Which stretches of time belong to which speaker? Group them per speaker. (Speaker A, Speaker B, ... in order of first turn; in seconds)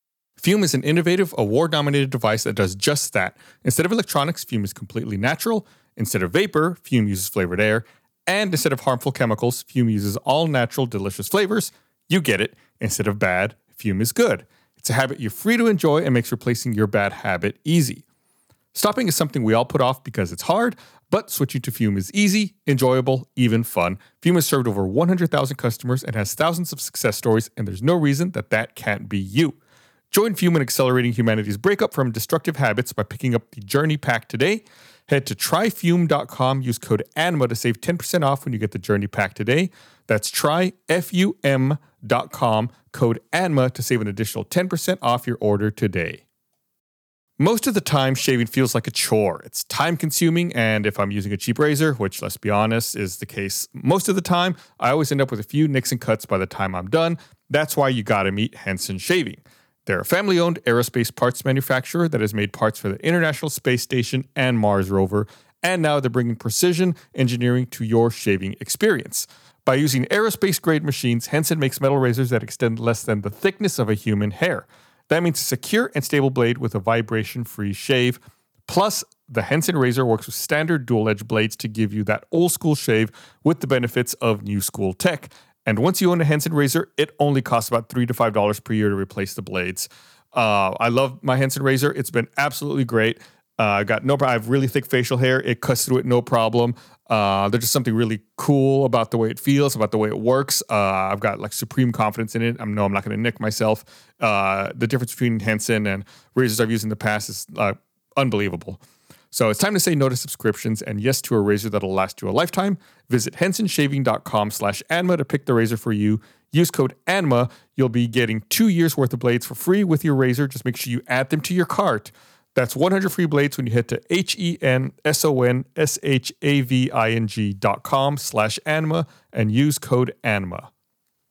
Speaker A: 0.4-18.0, 18.7-29.6, 30.1-46.2, 47.4-108.8, 109.3-130.7